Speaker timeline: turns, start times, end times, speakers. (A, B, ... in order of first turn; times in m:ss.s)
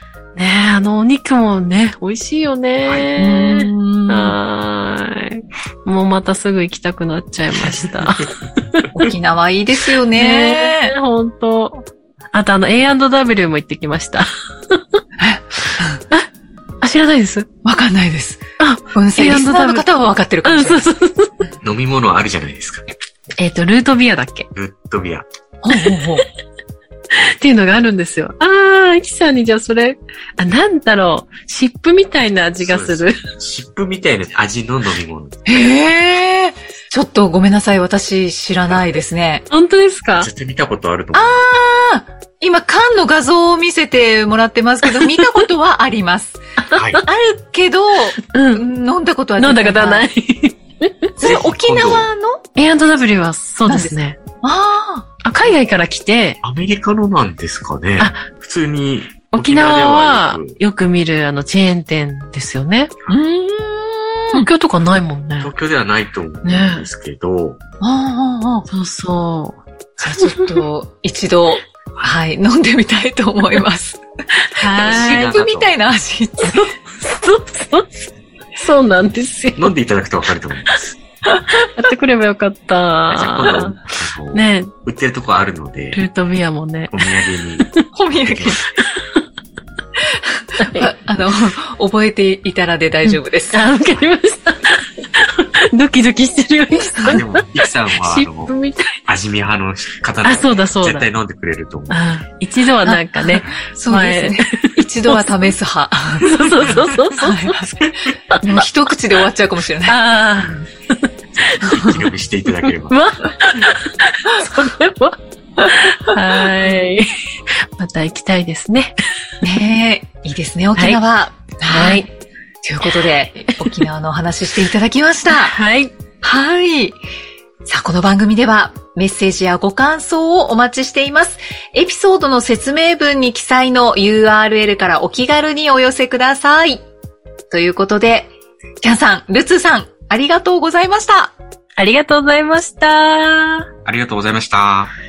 0:00.4-0:08.9 A
0:03.2-0:04.4 B
0:07.6-0:08.3 C
0:08.9-0:10.9 B
0:10.1-0:14.8 A
0:15.2-0:16.0 B
0:16.8-0:17.5 A
0:17.6-0:18.4 B
0:18.6-0:19.8 A
0:18.9-0:20.8 B
0:20.4-0:21.3 A
0:21.6-0:22.8 C
0:23.4-0:24.5 A
0:24.5-0:25.2 C
0:25.6-0:26.2 B
0:25.8-0:26.2 A
0:27.2-0:33.2 A
0:32.6-0:35.7 C
0:35.5-0:39.4 B
0:39.5-0:40.3 A
0:40.2-0:41.3 C
0:41.1-0:46.4 B
0:45.1-0:45.4 A
0:46.6-0:47.0 A
0:46.7-0:47.0 C
0:47.0-0:50.0 B
0:48.2-0:48.6 A
0:49.4-0:51.1 A
0:51.2-0:52.4 B
0:51.2-0:52.1 C
0:52.6-0:54.2 A
0:53.7-0:55.1 B
0:55.2-0:56.4 A
0:56.4-1:00.6 C
0:58.0-0:58.2 A
0:59.3-1:02.9 A
1:03.1-1:04.5 B
1:04.3-1:05.5 A
1:05.4-1:07.6 C
1:06.4-1:06.9 A
1:07.8-1:08.7 B
1:08.7-1:09.6 A
1:10.0-1:14.0 B
1:10.1-1:10.6 A
1:14.5-1:15.4 A
1:14.7-1:16.7 B
1:14.8-1:15.7 C
1:16.4-1:17.9 A
1:18.6-1:19.7 A
1:19.6-1:21.0 C
1:21.7-1:23.8 A
1:23.1-1:26.0 C
1:24.3-1:24.7 A
1:25.9-1:27.0 A
1:26.9-1:27.7 C
1:27.9-1:28.6 B
1:28.2-1:28.6 C
1:30.1-1:33.6 B
1:30.6-1:30.9 A
1:33.0-1:37.5 A
1:36.7-1:37.2 B
1:37.1-1:38.5 C
1:38.0-1:39.0 A
1:39.1-1:42.0 C
1:40.2-1:41.1 A
1:41.9-1:45.4 A
1:42.8-1:47.8 B
1:46.2-1:47.6 A
1:48.3-1:48.6 A
1:48.4-1:50.0 B
1:49.9-1:50.7 A
1:51.4-1:53.0 C
1:51.4-1:51.8 A
1:52.9-1:57.0 A
1:56.2-1:56.5 B
1:57.8-1:58.9 A
1:59.4-2:02.1 B
2:01.7-2:02.0 A
2:02.6-2:05.6 B
2:05.3-2:05.9 A
2:06.2-2:07.0 B
2:07.6-2:16.8 B
2:17.5-2:21.3 B
2:21.8-2:23.7 A
2:23.8-2:24.9 C